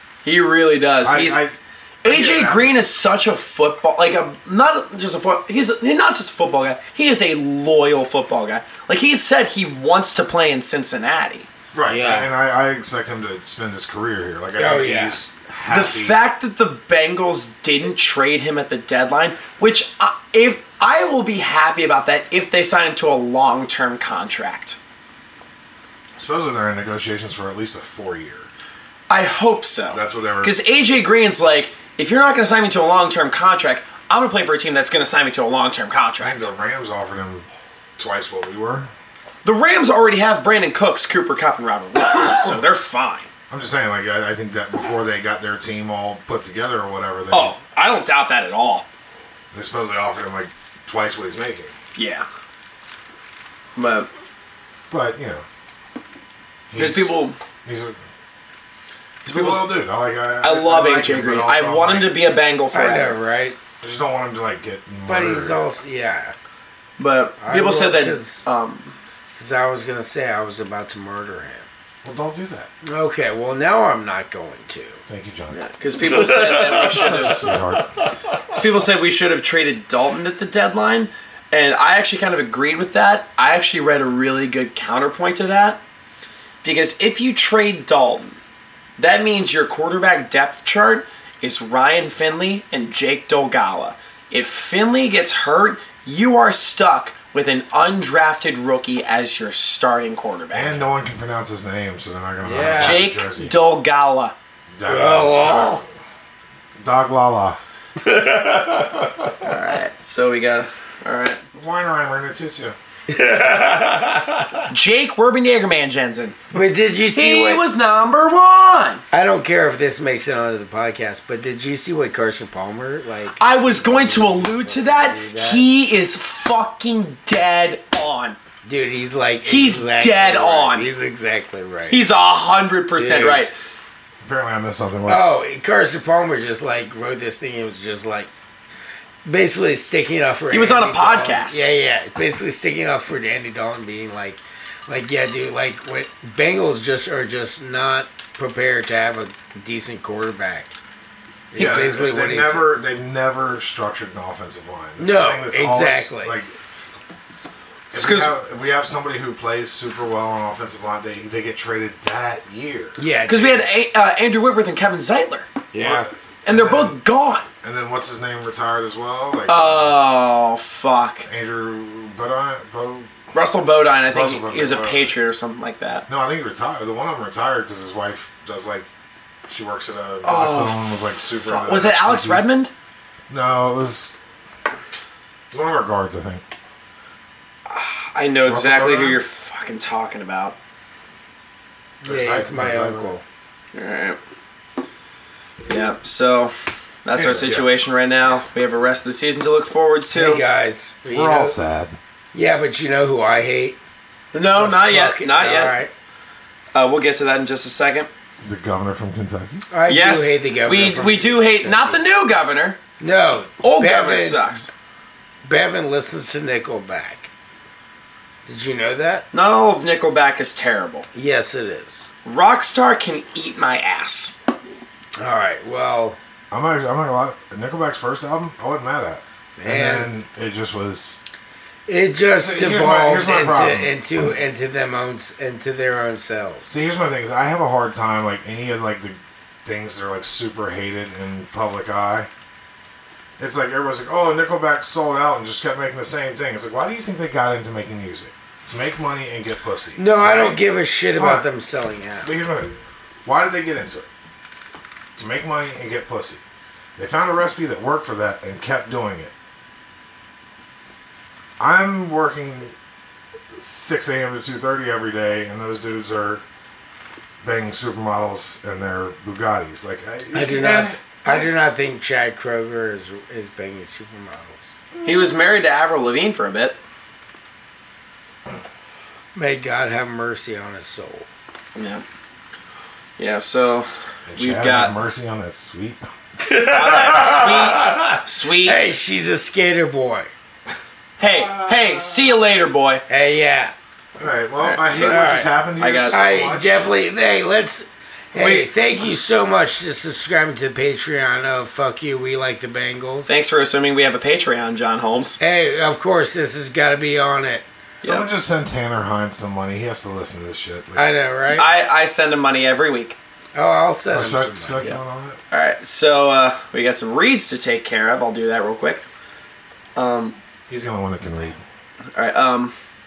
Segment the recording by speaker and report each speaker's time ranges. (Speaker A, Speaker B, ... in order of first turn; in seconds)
Speaker A: 0.2-1.4, 2.0-11.5, 15.7-24.8, 29.1-36.5, 39.4-43.3, 47.3-48.9, 52.0-52.3, 53.8-54.1, 56.8-57.4, 59.2-59.7, 60.4-63.2, 67.0-68.9, 75.5-77.6, 78.5-85.8, 86.6-88.4, 89.0-100.9, 102.8-104.3, 109.4-111.4, 114.7-116.4, 117.1-119.0, 123.4-128.4, 129.4-130.9, 131.9-133.5, 140.5-141.7, 151.6-151.9, 157.9-158.3, 163.3-165.5, 166.4-167.5, 169.5-171.2, 173.3-176.1, 180.2-180.9, 181.4-182.7, 187.7-190.6, 193.7-194.2, 195.7-196.5, 197.0-200.4, 204.3-205.8, 206.7-208.1, 209.9-212.8, 213.6-214.7, 219.3-221.1, 222.2-224.4, 275.0-276.8, 281.8-282.0, 283.2-284.9, 286.7-288.8, 291.2-293.0, 294.6-296.2, 298.3-298.7, 303.3-305.4, 308.0-308.3, 311.5-313.2, 315.5-319.0, 319.9-320.4, 322.1-322.7
Speaker B: 1.0-2.8, 11.7-16.2, 26.1-28.5, 29.9-30.6, 36.2-38.9, 43.5-47.6, 49.5-51.7, 54.9-55.4, 56.7-58.0, 59.2-62.2, 63.8-65.6, 72.0-72.7, 75.1-75.6, 76.6-77.9, 100.5-103.5, 104.7-105.9, 106.8-107.6, 111.5-112.8, 134.2-135.2, 151.6-156.5, 157.9-163.1, 165.8-167.0, 167.6-170.0, 171.2-173.1, 174.1-175.2, 176.1-178.9, 179.5-182.4, 183.3-184.2, 185.5-186.4, 188.5-189.2, 192.0-193.1, 197.1-197.7, 201.1-202.0, 208.4-209.6, 226.5-231.2, 232.4-233.9, 236.7-242.3, 243.4-250.6, 251.2-251.4, 252.2-254.1, 255.1-256.4, 257.0-259.3, 261.6-262.7, 263.5-266.4, 267.4-271.5, 275.0-275.3, 284.3-286.0, 291.2-292.2, 294.2-296.9, 308.0-311.1, 314.1-315.4, 320.7-321.6
Speaker C: 11.9-12.3, 14.5-15.2, 62.7-63.6, 65.0-66.3, 67.4-68.5, 69.4-71.7, 72.8-75.0, 76.0-77.6, 102.4-103.1, 104.9-105.8, 108.0-109.5, 113.1-114.6, 116.5-117.6, 119.1-125.7, 128.6-132.0, 132.9-133.5, 135.1-138.3, 139.2-150.8, 151.5-152.7, 155.0-156.4, 163.0-163.7, 165.7-166.1, 192.0-193.2, 200.1-201.6, 202.3-203.8, 204.5-205.9, 209.7-212.0, 213.0-214.5, 215.4-217.3, 218.4-219.2, 221.1-222.1, 225.2-226.2, 229.6-230.1, 231.9-236.8, 249.9-252.3, 270.3-274.7, 279.3-281.2, 286.4-290.3, 293.1-293.7, 294.9-295.5, 296.1-303.4, 305.4-307.7, 310.9-311.7, 313.5-314.9